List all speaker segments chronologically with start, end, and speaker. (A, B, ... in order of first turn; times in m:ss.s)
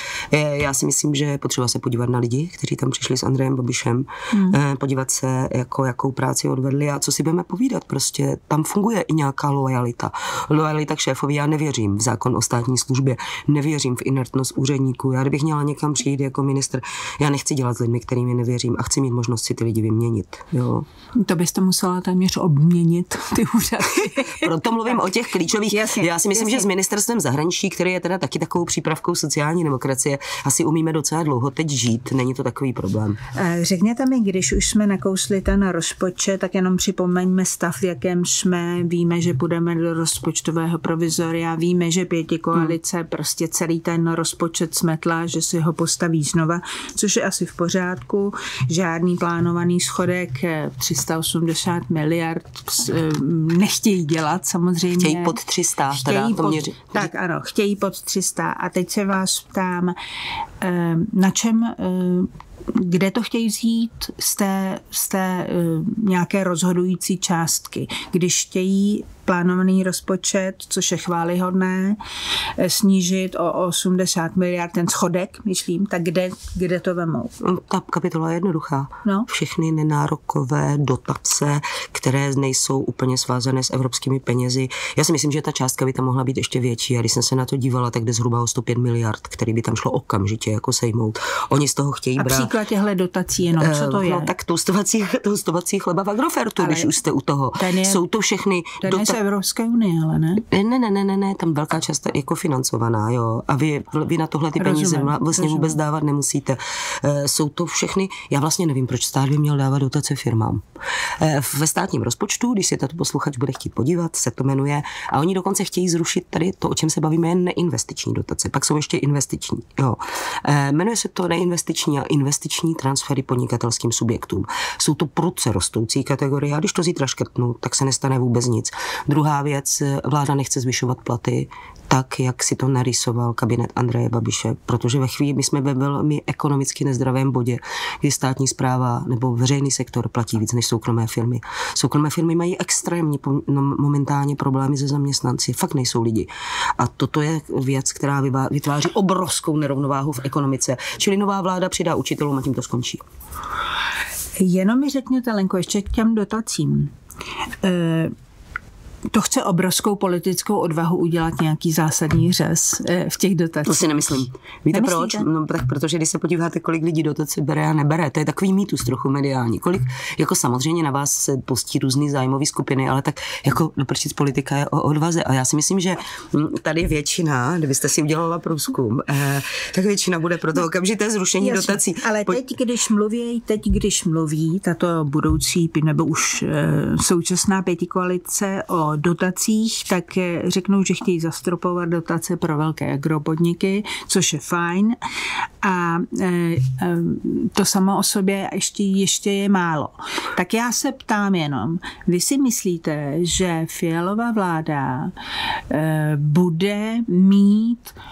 0:00.3-0:20.8 A
0:04.3-0:04.6 B
0:21.2-0:24.5 B
0:24.1-0:33.2 A
0:25.7-0:26.7 B
0:33.3-0:55.4 B
0:55.0-0:57.1 A
0:55.9-1:00.0 B
1:00.6-1:12.0 B
1:12.6-1:17.3 B
1:17.4-1:32.5 A
1:32.2-1:34.3 B
1:33.6-1:39.2 A
1:36.6-1:36.9 B
1:37.6-1:38.0 B
1:38.8-1:40.4 B
1:40.4-1:50.6 A
1:44.6-1:45.8 B
1:51.2-2:33.0 A
2:34.4-2:36.9 B
2:37.6-2:38.1 B
2:39.1-2:45.2 B
2:43.6-3:02.4 A
3:01.4-3:15.0 B
3:15.6-3:25.1 B
3:25.7-3:28.0 B